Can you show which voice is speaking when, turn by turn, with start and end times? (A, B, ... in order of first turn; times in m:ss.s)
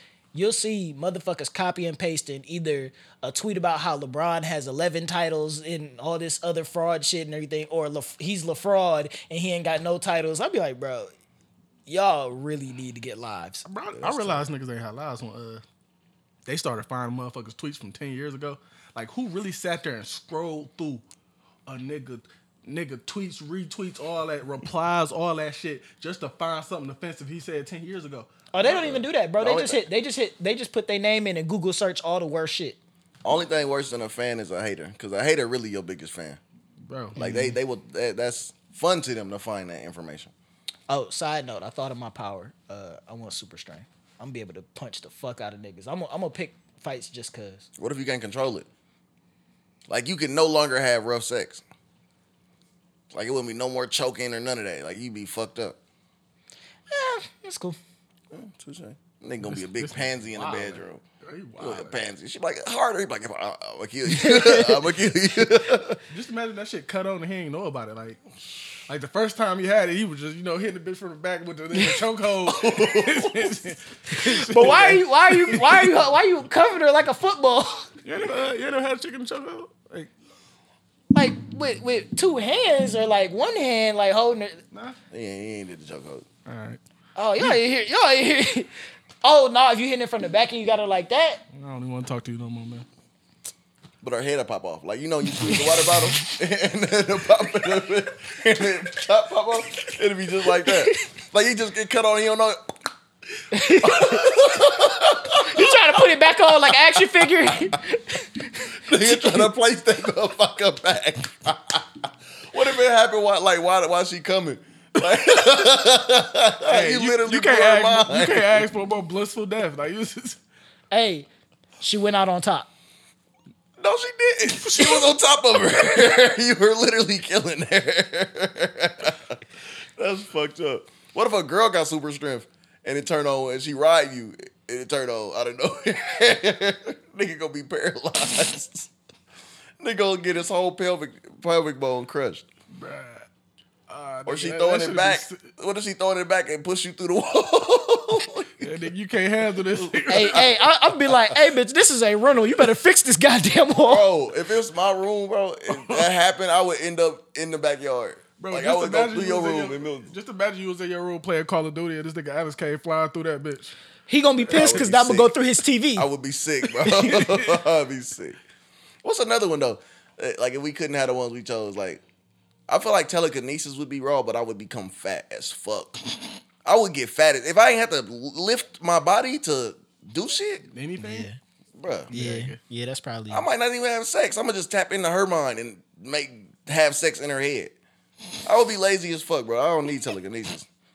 0:00.3-0:11.1 A
0:11.9-0:13.6 A
0:13.7-0:15.6 B
0:14.0-0:14.5 C
0:16.5-0:21.0 B
0:21.7-0:28.3 B
0:28.5-0:32.8 A
0:28.6-0:29.8 C
0:33.2-0:36.4 C
0:36.9-0:37.2 B
0:37.2-0:40.3 C
0:37.2-0:37.5 A
0:40.9-0:47.7 A
0:47.8-0:48.7 C
0:49.9-0:51.6 C
0:53.1-0:55.8 C
0:56.9-0:57.8 A
0:58.3-1:01.0 C
0:59.4-1:02.1 B
1:01.6-1:06.0 C
1:04.1-1:04.8 A
1:06.1-1:08.2 B
1:08.9-1:16.0 B
1:12.5-1:13.6 C
1:14.1-1:17.9 A
1:18.0-1:20.1 B
1:21.1-1:24.6 A
1:25.1-1:26.3 C
1:26.5-1:26.8 B
1:27.2-1:28.7 A
1:29.2-1:31.4 A
1:31.5-1:32.9 B
1:34.0-1:42.7 C
1:40.6-1:40.9 A
1:43.5-1:44.3 A
1:43.7-1:46.0 C
1:45.4-1:49.4 A
1:46.7-1:47.0 C
1:48.9-1:58.6 C
1:56.7-2:00.4 B
2:00.9-2:01.3 A
2:01.8-2:02.7 A
2:03.8-2:09.4 C
2:04.6-2:05.1 B
2:10.0-2:18.9 C
2:19.8-2:22.5 C
2:22.7-2:23.3 B
2:23.9-2:25.5 B
2:24.3-2:28.7 C
2:28.6-2:30.5 B
2:29.8-2:30.5 C
2:30.1-2:34.1 A
2:33.9-2:40.1 C
2:35.7-2:36.1 B
2:38.4-2:43.8 B
2:44.1-2:46.1 A
2:44.4-2:45.4 C
2:46.0-2:48.4 C
2:46.8-2:47.6 B
2:49.0-2:52.0 C
2:52.7-2:56.0 C
2:56.6-3:00.6 C
3:00.7-3:01.3 B
3:01.0-3:01.4 A
3:01.8-3:02.1 C
3:02.1-3:02.6 B
3:02.1-3:03.5 A
3:03.3-3:07.7 C
3:08.4-3:10.7 C